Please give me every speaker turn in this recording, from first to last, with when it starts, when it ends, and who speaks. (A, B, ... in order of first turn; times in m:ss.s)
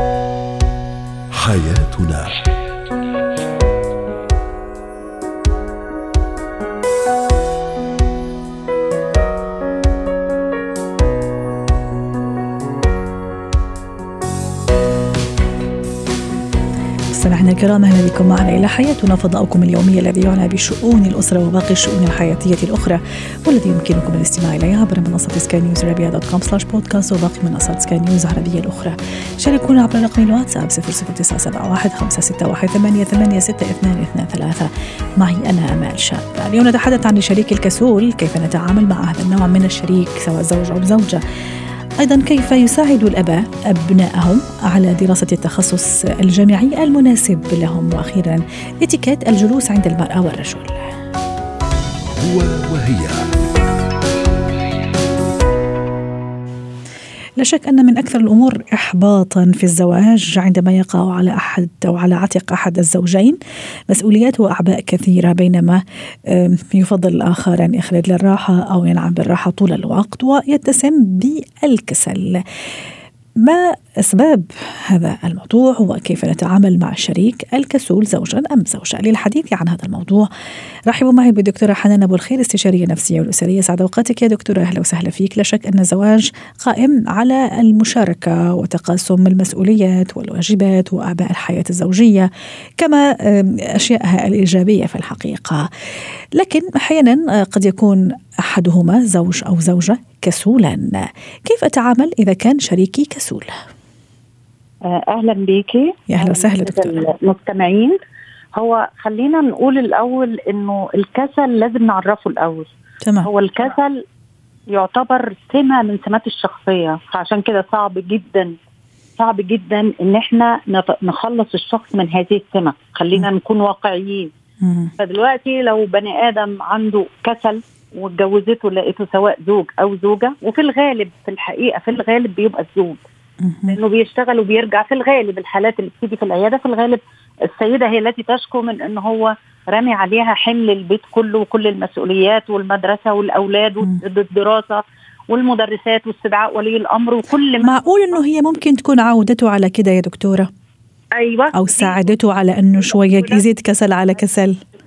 0:01.3-0:02.4 A
0:17.1-0:41.2 B
0:42.0-0:50.8 B
0:52.0-0:53.3 A
0:57.4-1:03.4 B
1:03.9-1:12.4 B
1:13.4-1:20.3 B
1:20.9-1:35.6 B
1:36.3-1:43.5 B
1:44.8-1:48.0 C
1:46.1-1:47.0 B
1:48.5-1:52.7 C
1:53.0-1:53.3 B
1:53.2-1:54.0 C
1:54.7-1:58.5 C
1:59.2-2:04.3 C
2:04.6-2:04.9 B
2:05.0-2:13.0 C
2:13.4-2:13.8 B
2:13.7-2:27.8 C
2:27.6-2:30.5 B
2:31.1-2:32.1 C
2:31.5-2:34.6 B
2:33.0-2:33.4 C